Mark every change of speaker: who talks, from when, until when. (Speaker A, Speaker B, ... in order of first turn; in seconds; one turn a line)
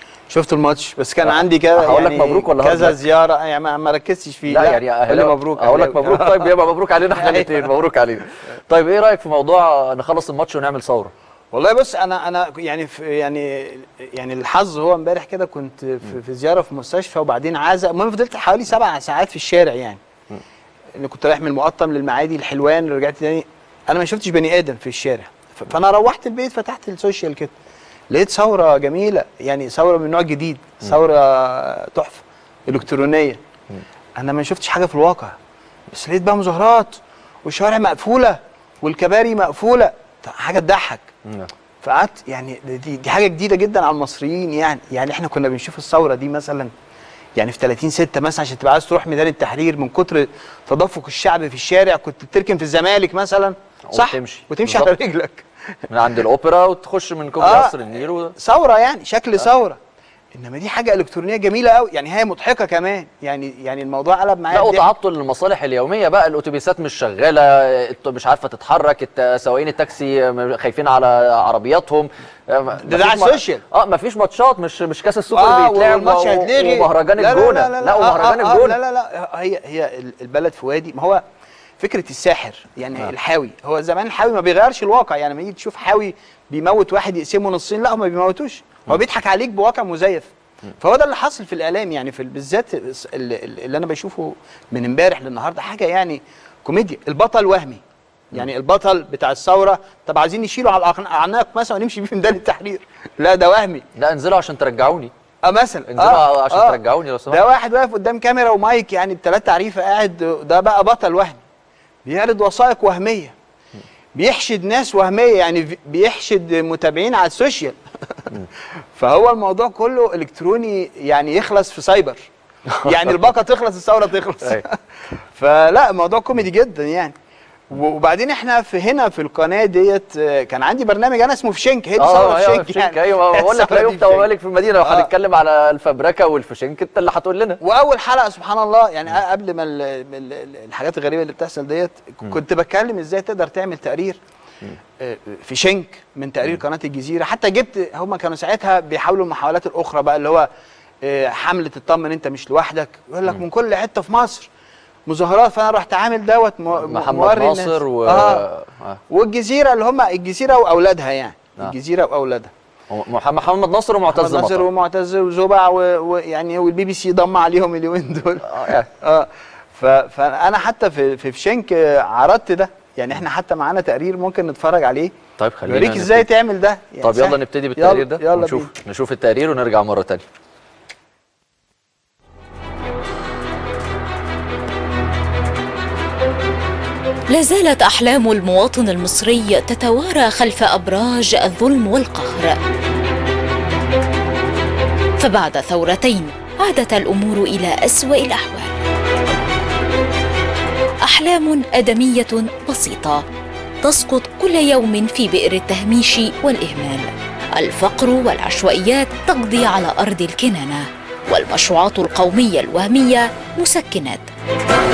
Speaker A: 0.3-6.5
Speaker B: 1.2-3.0
Speaker B: 4.5-11.1
Speaker A: 7.1-7.7
Speaker A: 11.5-20.0
Speaker A: 21.0-27.5
Speaker A: 28.1-33.4
Speaker A: 34.2-35.4
Speaker A: 35.9-41.1
Speaker B: 41.3-41.5
Speaker A: 41.8-46.7
Speaker A: 47.4-55.5
Speaker B: 53.9-54.9
Speaker B: 55.9-58.3
Speaker A: 57.4-59.8
Speaker A: 60.3-64.9
Speaker B: 64.5-78.8
Speaker A: 72.8-73.6
Speaker A: 75.3-81.2
Speaker A: 81.8-103.8
Speaker B: 104.0-105.1
Speaker A: 105.4-111.4
Speaker B: 105.9-107.4
Speaker A: 112.0-113.3
Speaker A: 114.2-118.4
Speaker A: 119.0-122.3
Speaker A: 122.8-127.2
Speaker A: 127.7-134.3
Speaker B: 132.0-137.6
Speaker A: 134.8-135.1
Speaker A: 137.6-144.2
Speaker A: 145.0-150.5
Speaker A: 151.0-154.5
Speaker A: 155.1-158.5
Speaker B: 156.8-159.0
Speaker A: 159.1-162.5
Speaker B: 162.9-164.7
Speaker A: 164.1-175.1
Speaker B: 168.5-168.9
Speaker B: 175.4-176.3
Speaker A: 175.7-178.7
Speaker B: 177.0-180.2
Speaker C: 187.3-192.6
Speaker C: 195.2-198.7
Speaker C: 201.0-203.2
Speaker C: 203.8-214.3